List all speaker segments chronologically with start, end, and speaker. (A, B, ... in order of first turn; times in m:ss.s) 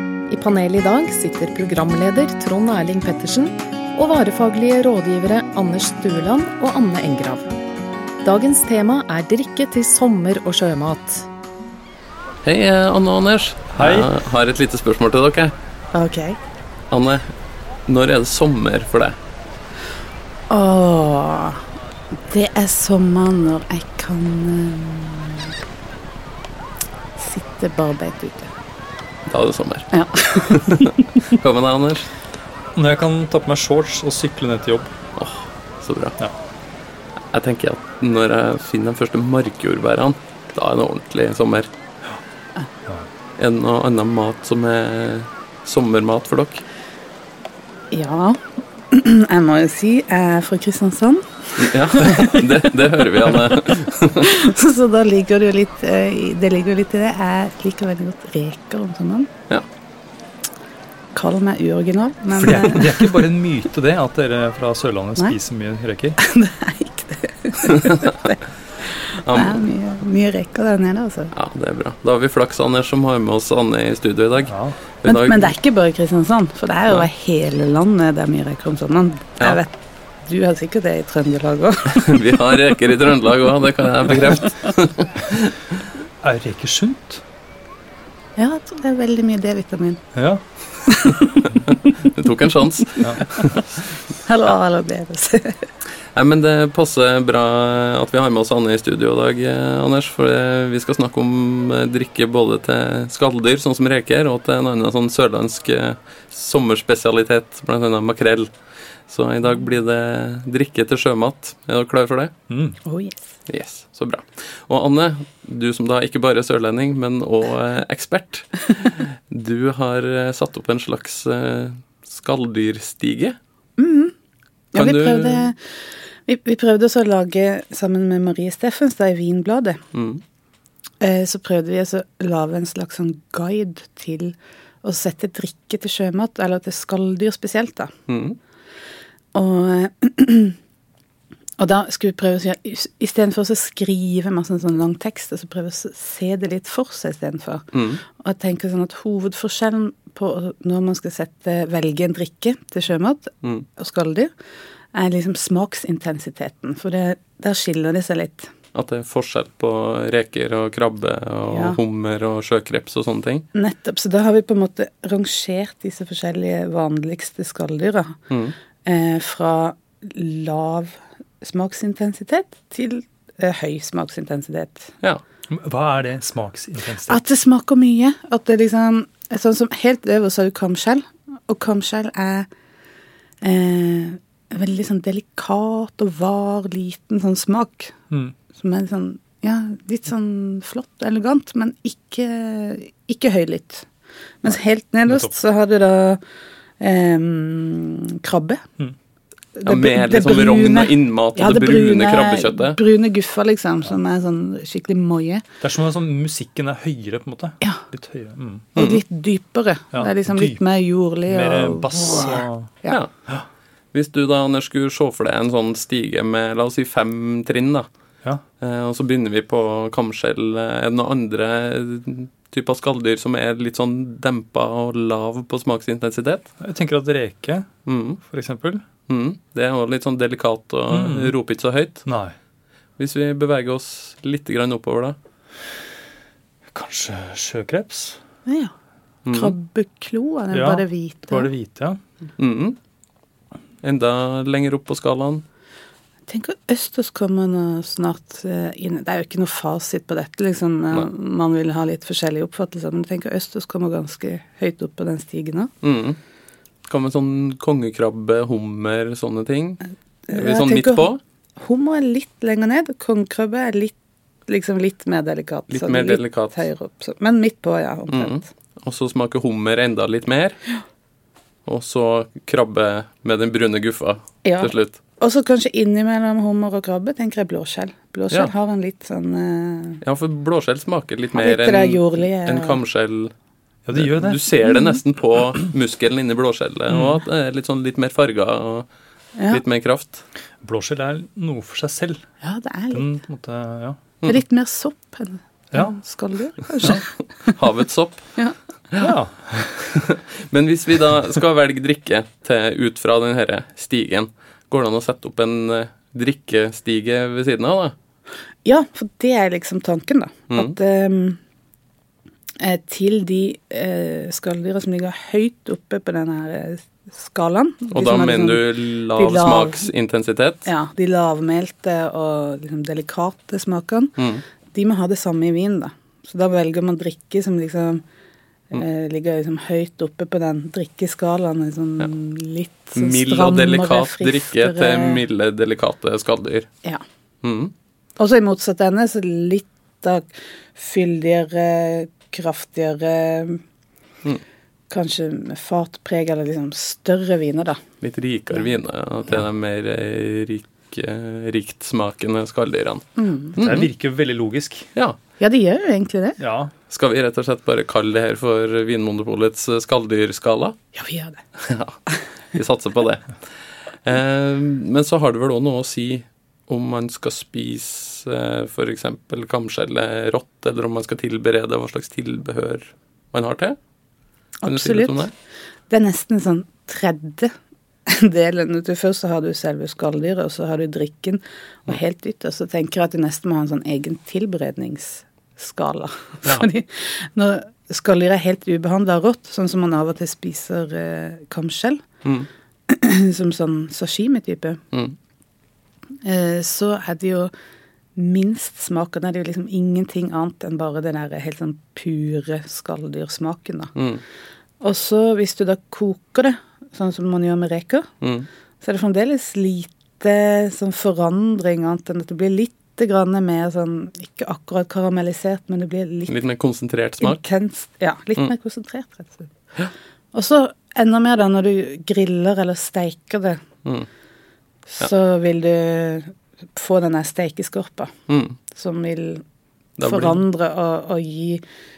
0:00.3-0:07.5 A
0:08.2-0:11.3 A
0:12.4-0:15.5 B
0:13.8-0:14.1 C
0:15.9-0:16.4 D
0:16.9-0:17.2 B
0:17.9-0:19.2 B
0:20.5-0:25.5 D
0:27.2-0:28.5 D
0:29.3-0:32.1 B
0:29.9-0:31.0 D
0:32.7-0:34.9 C
0:35.2-0:36.2 B
0:37.3-0:41.7 B
0:43.4-0:46.6 B
0:47.9-0:52.8 D
0:51.6-0:54.4 B
0:54.2-0:59.3 D
1:01.1-1:03.3 D
1:02.4-1:06.2 C
1:06.2-1:11.3 D
1:07.6-1:08.3 B
1:09.2-1:09.6 B
1:11.3-1:15.5 B
1:14.5-1:14.8 C
1:15.0-1:22.4 D
1:21.9-1:25.7 B
1:26.2-1:27.2 C
1:28.4-1:30.0 D
1:30.1-1:30.4 C
1:30.9-1:32.1 D
1:32.0-1:33.6 B
1:32.8-1:33.6 D
1:34.2-1:35.7 D
1:36.1-1:48.5 B
1:49.1-1:52.3 B
1:52.5-1:52.8 C
1:52.8-1:53.4 D
1:53.5-2:03.4 B
2:03.8-2:04.1 D
2:04.7-2:05.4 B
2:04.7-2:05.6 D
2:06.2-2:09.8 D
2:09.9-2:10.2 B
2:11.0-2:17.9 D
2:18.1-2:18.4 B
2:19.3-2:20.6 D
2:21.6-2:34.3 D
2:27.7-2:28.0 B
2:34.9-2:38.5 D
2:38.7-2:43.4 B
2:41.5-2:41.8 D
2:43.5-2:48.2 D
2:48.3-2:48.5 B
2:48.8-2:54.9 D
2:55.5-2:57.2 C
2:57.1-3:02.5 D
3:03.4-3:07.9 D
3:08.5-3:13.9 D
3:14.4-3:16.2 D
3:16.8-3:18.6 D
3:19.6-3:25.4 D
3:19.6-3:22.8 B
3:25.6-3:28.7 C
3:28.7-3:33.0 D
3:28.8-3:29.0 B
3:29.9-3:30.6 C
3:31.3-3:32.7 C
3:33.9-3:37.9 B
3:38.6-3:46.5 B
3:46.6-3:47.7 C
3:47.8-3:48.2 B
3:48.2-3:48.8 C
3:49.1-3:52.0 B
3:50.9-3:51.3 C
3:52.0-3:52.3 C
3:53.0-3:55.2 B
3:56.7-3:58.2 C
3:58.4-3:58.7 D
3:59.2-3:59.6 B
3:59.3-4:01.5 D
4:00.5-4:02.0 C
4:02.4-4:02.8 B
4:03.8-4:05.4 B
4:06.3-4:15.7 D
4:15.8-4:16.2 B
4:16.9-4:19.8 B
4:20.3-4:23.9 D
4:20.3-4:21.2 B
4:24.5-4:28.4 D
4:25.7-4:26.6 B
4:28.1-4:30.6 B
4:31.6-4:35.0 B
4:34.4-4:40.0 D
4:40.0-4:43.3 B
4:41.3-4:42.8 D
4:43.9-4:44.5 C
4:43.9-4:48.9 B
4:46.9-4:47.2 C
4:49.4-4:49.6 D
4:49.5-4:50.2 B
4:50.6-4:52.2 C
4:52.4-4:53.1 D
4:52.9-4:54.0 C
4:54.2-4:57.6 D
4:56.9-4:58.3 B
4:58.9-4:59.2 B
4:59.0-4:59.9 C
4:59.8-5:07.9 B
5:08.6-5:11.4 D
5:12.6-5:19.8 D
5:17.9-5:20.7 B
5:20.6-5:24.2 D
5:24.2-5:24.4 B
5:24.7-5:28.0 D
5:28.7-5:35.2 D
5:32.9-5:36.7 B
5:37.4-5:37.7 B
5:38.2-5:43.6 D
5:44.9-5:47.8 D
5:48.0-5:53.9 B
5:53.2-5:53.6 D
5:53.6-5:54.9 C
5:55.4-5:56.4 D
5:56.4-5:56.7 C
5:56.9-6:00.8 B
6:00.9-6:01.4 D
6:01.6-6:02.0 B
6:02.5-6:03.3 B
6:04.0-6:13.8 B
6:14.6-6:15.3 D
6:14.6-6:15.3 B
6:15.9-6:17.5 D
6:18.1-6:32.0 D
6:32.9-6:34.8 D
6:36.2-6:37.5 D
6:38.2-6:43.9 D
6:43.9-6:44.2 B
6:44.8-6:48.1 D
6:48.2-6:48.5 B
6:48.8-6:56.3 D
6:56.3-6:57.4 B
6:57.2-6:59.5 D
7:00.3-7:03.6 D
7:04.9-7:08.1 D
7:08.3-7:08.6 B
7:08.6-7:09.4 D
7:10.0-7:10.4 B
7:10.0-7:11.6 D